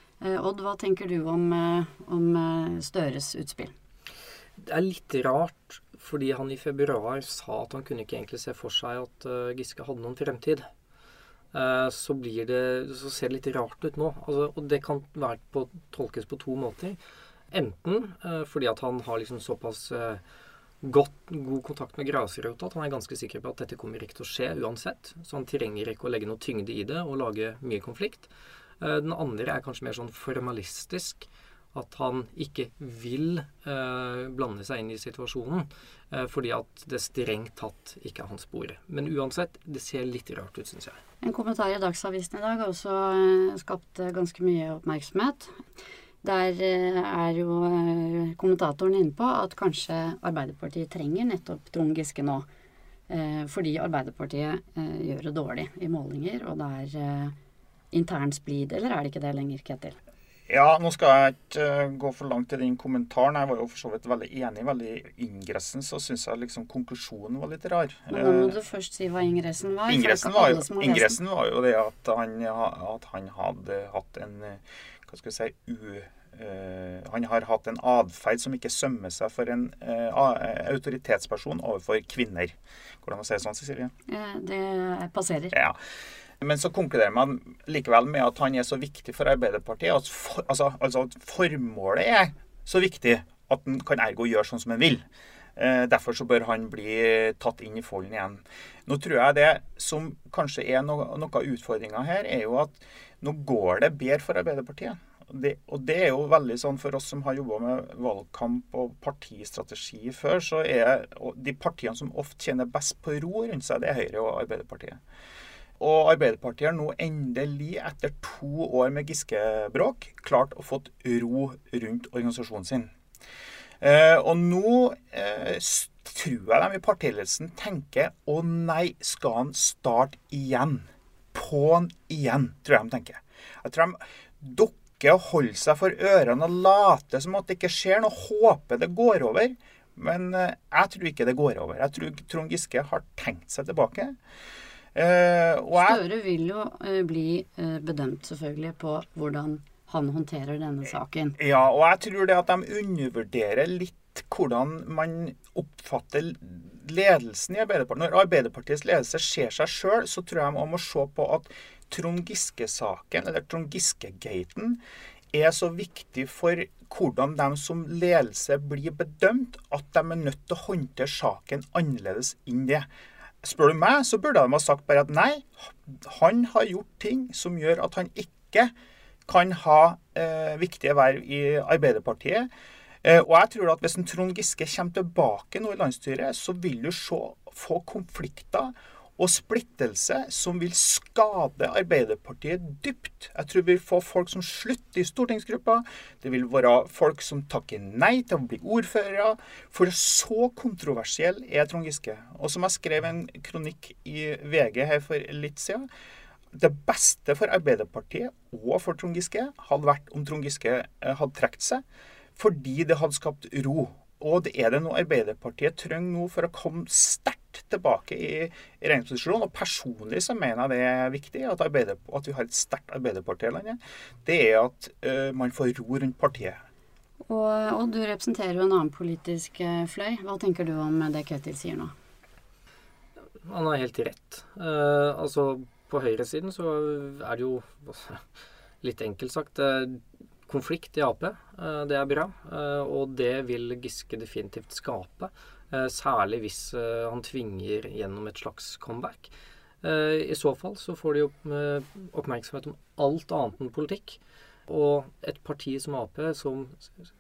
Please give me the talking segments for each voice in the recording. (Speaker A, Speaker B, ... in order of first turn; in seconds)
Speaker A: 0.2-3.7, 41.2-45.5, 46.2-52.5, 53.1-57.4, 57.9-60.0, 68.1-71.2, 84.1-85.5, 145.7-151.4, 227.3-231.9
Speaker B: 4.6-10.7, 11.5-17.0, 17.5-20.2, 20.8-41.0, 233.4-238.2, 238.8-256.9
Speaker C: 60.5-68.6, 69.9-83.9, 86.4-95.0, 95.6-115.0, 115.8-122.9, 123.8-144.2, 144.9-146.0, 151.4-164.8, 165.3-172.9, 173.4-178.7, 179.3-182.5, 183.0-205.9, 206.5-211.8, 212.4-226.6